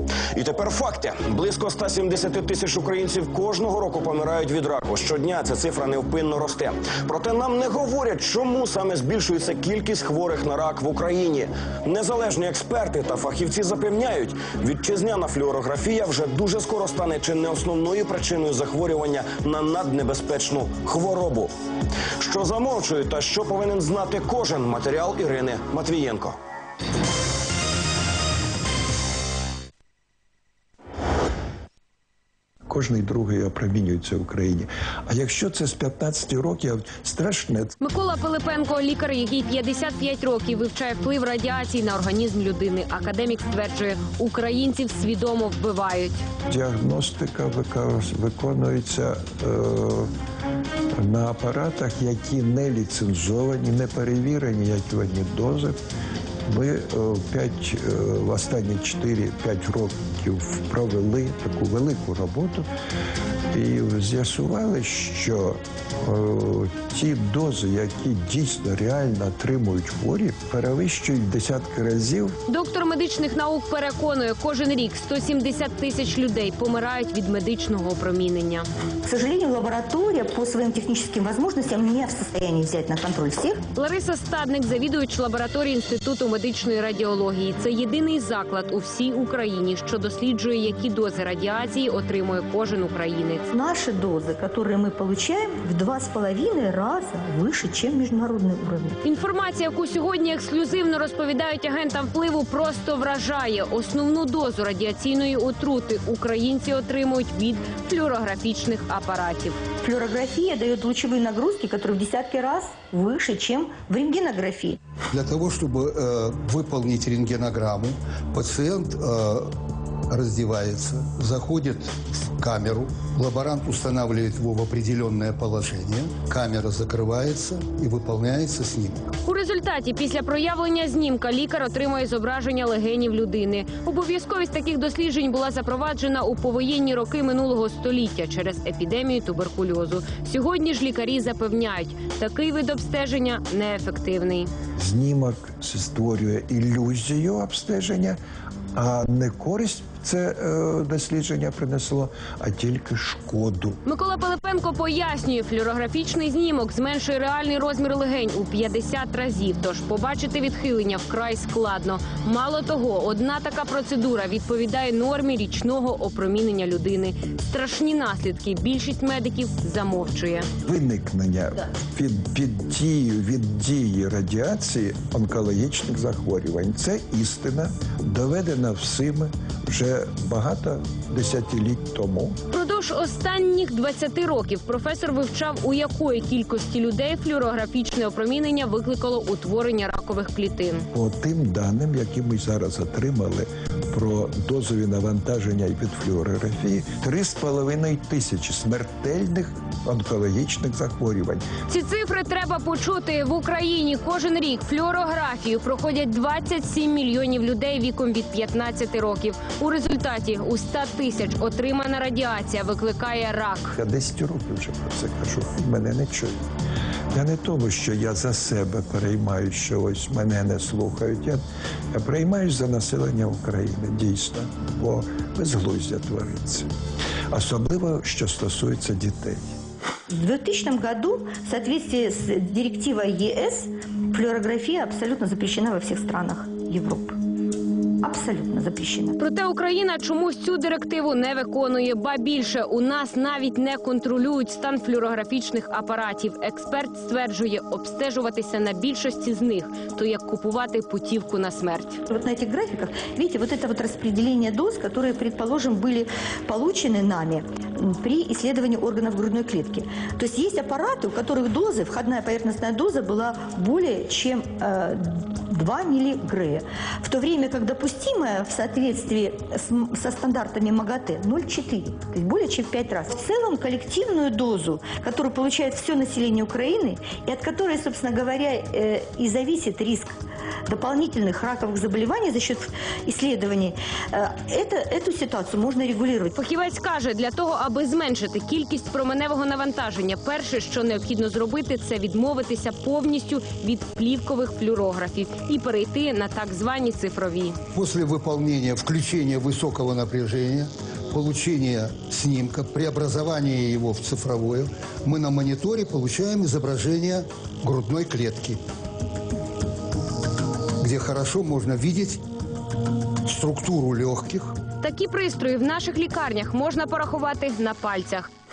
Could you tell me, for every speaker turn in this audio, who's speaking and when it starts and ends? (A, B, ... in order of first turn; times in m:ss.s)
0:00.3-0:21.5 A
0:22.2-0:26.4 A
0:32.7-0:37.7 B
0:37.8-0:46.2 C
0:46.5-0:50.1 B
0:50.9-0:55.8 B
0:56.5-1:02.7 B
1:03.5-1:12.4 B
1:12.5-1:18.7 C
1:19.0-1:23.6 D
1:23.7-1:33.4 C
1:33.5-1:39.0 D
1:39.0-1:49.6 C
1:49.8-1:54.8 D
1:55.1-1:59.5 E
2:00.1-2:09.0 E
2:09.2-2:24.5 C
2:24.8-2:28.2 B
2:28.7-2:33.8 B
2:33.8-2:50.5 C
2:50.6-3:02.4 B
3:02.5-3:10.9 C
3:10.9-3:21.4 B
3:21.7-3:33.7 C
3:33.7-3:36.4 B
3:37.1-3:41.4 B
3:41.9-3:46.7 B
3:47.3-3:49.5 B
3:50.1-3:57.2 D
3:58.0-3:59.2 D
3:59.2-4:12.0 C
4:12.1-4:40.1 D
4:40.7-4:46.4 D
4:46.3-4:57.6 C
4:57.7-5:08.6 E
5:10.8-5:12.2 E
5:13.2-5:14.5 E
5:14.8-5:18.3 C